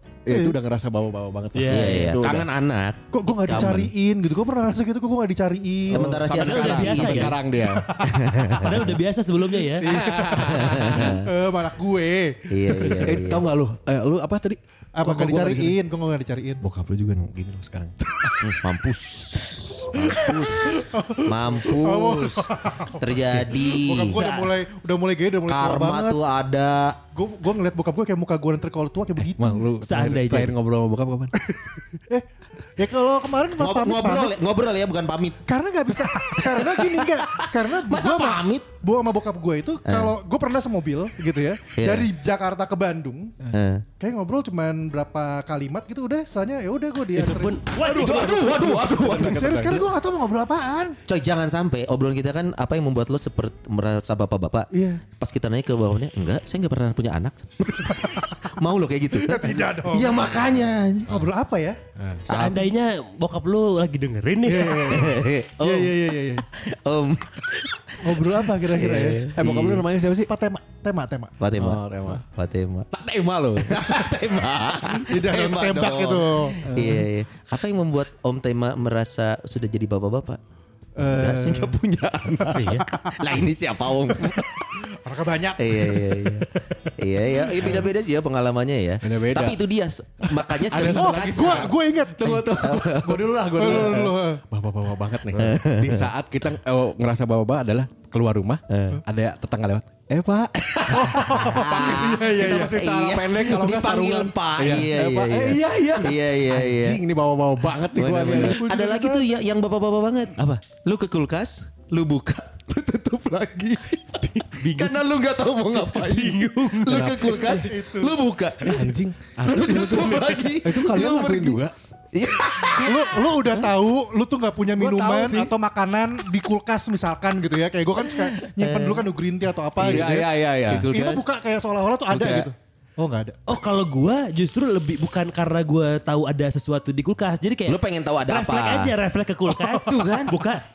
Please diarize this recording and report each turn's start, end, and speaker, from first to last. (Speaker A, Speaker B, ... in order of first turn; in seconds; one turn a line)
Speaker A: 0.2-2.5
Speaker B: 0.3-0.6
Speaker C: 1.6-2.2
Speaker D: 1.7-3.9
Speaker B: 3.1-6.2
Speaker A: 3.5-3.9
Speaker D: 5.9-7.4
Speaker A: 5.9-8.9
Speaker C: 6.3-7.4
Speaker B: 7.6-8.2
Speaker D: 8.0-8.9
Speaker C: 8.6-9.9
Speaker B: 9.7-13.1
Speaker A: 9.9-11.2
Speaker D: 10.5-11.3
Speaker D: 12.5-13.5
Speaker A: 12.9-15.8
Speaker B: 15.0-16.6
Speaker A: 16.6-18.5
Speaker D: 18.4-24.2
Speaker A: 19.9-20.9
Speaker B: 20.0-26.2
Speaker A: 23.2-23.6
Speaker C: 24.0-24.5
Speaker D: 25.5-27.0
Speaker B: 27.1-29.6
Speaker A: 29.2-31.3
Speaker C: 29.8-30.5
Speaker B: 31.4-34.4
Speaker D: 33.6-35.5
Speaker B: 35.5-47.6
Speaker D: 36.0-38.7
Speaker D: 39.9-40.1
Speaker D: 41.8-42.1
Speaker D: 43.5-43.9
Speaker C: 47.1-48.6
Speaker A: 47.8-49.9
Speaker D: 47.8-49.7
Speaker B: 48.9-51.0
Speaker D: 51.1-61.3
Speaker B: 54.7-55.0
Speaker B: 59.2-60.3
Speaker B: 61.1-61.8
Speaker D: 62.3-62.7
Speaker C: 62.3-65.1
Speaker B: 64.5-66.5
Speaker D: 64.8-69.8
Speaker B: 68.0-69.5
Speaker A: 69.3-70.3
Speaker B: 70.2-71.4
Speaker D: 71.4-72.9
Speaker A: 71.6-72.2
Speaker A: 72.9-74.3
Speaker D: 73.6-80.4
Speaker B: 75.0-77.0
Speaker B: 81.0-81.8
Speaker D: 81.0-84.5
Speaker C: 82.5-82.8
Speaker B: 82.8-83.2
Speaker B: 84.2-86.5
Speaker D: 85.6-91.8
Speaker B: 87.5-87.8
Speaker A: 87.6-87.9
Speaker A: 89.0-89.6
Speaker A: 90.4-108.7
Speaker B: 90.7-92.6
Speaker D: 92.3-94.1
Speaker B: 93.6-94.4
Speaker D: 95.3-96.1
Speaker D: 98.7-99.0
Speaker D: 100.6-107.0
Speaker B: 100.9-103.0
Speaker D: 108.0-118.9
Speaker B: 108.2-109.3
Speaker C: 110.4-110.6
Speaker C: 114.1-115.0
Speaker C: 115.7-117.2
Speaker A: 116.9-117.4
Speaker B: 117.1-118.2
Speaker A: 118.6-121.7
Speaker C: 119.4-120.0
Speaker D: 119.5-121.6
Speaker D: 122.1-123.4
Speaker B: 122.7-133.4
Speaker A: 123.4-123.7
Speaker A: 124.8-125.6
Speaker D: 128.0-129.1
Speaker D: 129.8-131.3
Speaker A: 129.8-130.9
Speaker D: 132.1-132.5
Speaker C: 133.5-140.6
Speaker D: 137.7-138.9
Speaker D: 139.8-140.3